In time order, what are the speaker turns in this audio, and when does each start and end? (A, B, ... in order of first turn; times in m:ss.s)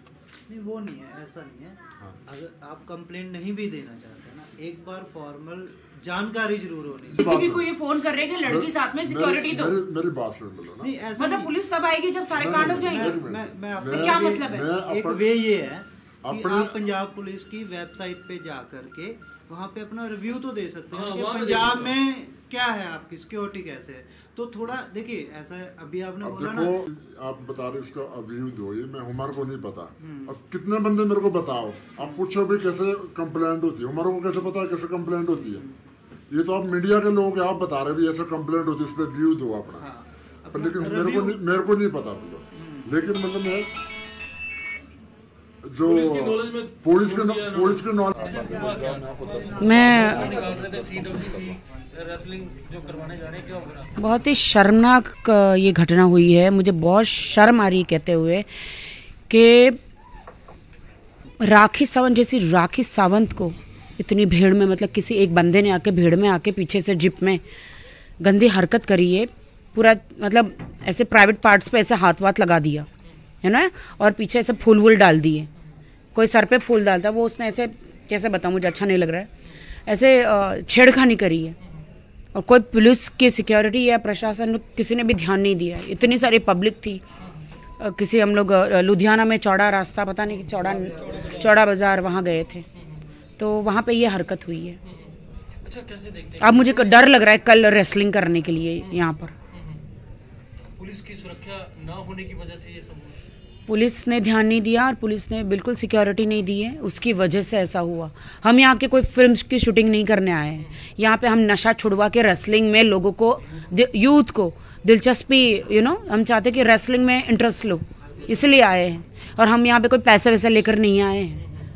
0:00.5-0:07.3 A
0:07.2-0:07.7 B
0:07.2-0:09.8 C
0:08.4-0:10.9 B
0:10.8-0:11.6 A
0:11.2-0:13.2 C
0:12.3-0:15.3 B
0:12.6-0:26.8 A
0:13.9-0:14.7 C
0:16.2-0:16.8 B
0:20.9-0:21.9 D
0:26.2-0:35.6 B
0:30.0-0:30.4 A
0:32.0-0:32.2 A
0:36.3-0:39.9 B
0:39.8-0:41.1 A
0:40.5-0:43.7 B
0:40.8-0:41.4 D
0:42.5-0:42.9 A
0:45.6-0:48.5 B
0:45.8-0:53.9 D
0:48.3-0:50.7 A
0:49.6-0:50.4 C
0:54.0-0:58.5 C
0:59.3-0:59.8 C
1:01.4-1:07.4 C
1:08.2-1:12.9 C
1:13.4-1:15.5 C
1:16.1-1:19.3 C
1:19.9-1:21.6 C
1:22.3-1:27.0 C
1:27.8-1:32.6 C
1:30.5-1:31.5 D
1:33.4-1:34.8 C
1:34.9-1:37.2 D
1:36.4-1:39.3 C
1:38.8-1:39.8 D
1:40.8-1:43.2 D
1:43.7-2:01.4 C
2:01.4-2:01.7 D